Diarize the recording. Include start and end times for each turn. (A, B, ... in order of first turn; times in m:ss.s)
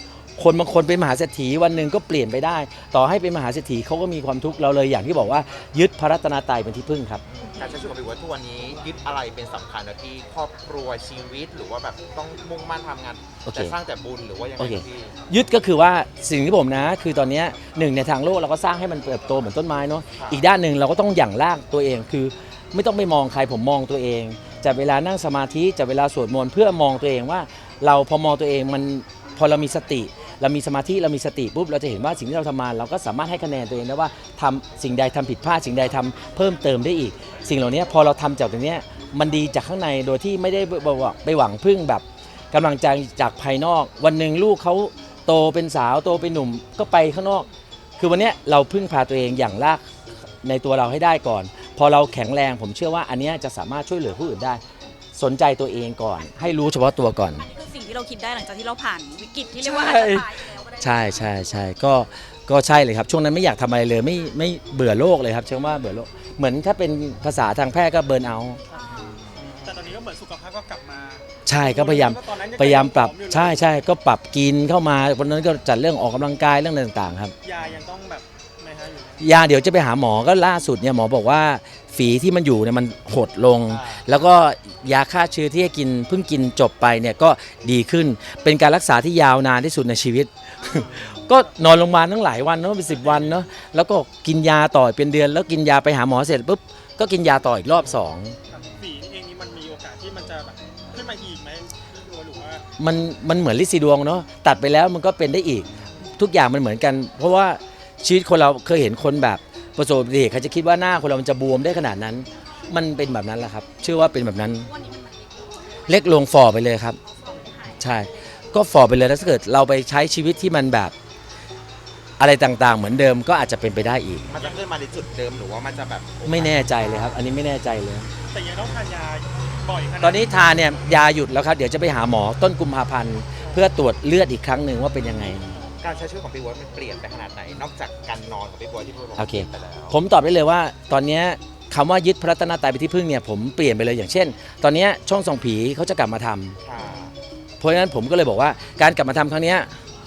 0:00.4-0:07.2 A
0:07.3-0:15.2 B
0:13.4-0:13.7 A
0:14.6-0:47.5 A
0:20.2-0:20.4 B
0:48.0-0:49.8 A
0:50.4-0:54.6 A
0:55.2-0:57.5 A
0:57.4-1:01.4 C
0:59.6-1:08.6 A
1:08.7-1:09.0 D
1:08.7-1:09.2 C
1:09.2-1:09.8 B
1:09.5-1:13.7 D
1:11.4-1:17.3 A
1:17.4-1:19.3 D
1:19.2-1:38.4 A
1:30.6-1:31.0 D
1:38.5-1:42.6 D
1:42.8-1:54.7 A
1:54.5-1:56.2 C
1:55.9-1:57.0 A
1:57.0-1:58.1 C
1:57.8-2:00.9 A
2:02.2-2:04.3 A
2:04.3-2:07.2 B
2:06.2-2:08.1 A
2:08.2-2:10.6 D
2:10.0-2:15.5 A
2:15.8-2:20.0 B
2:19.2-2:26.6 A
2:26.6-2:27.2 B
2:27.6-2:29.7 A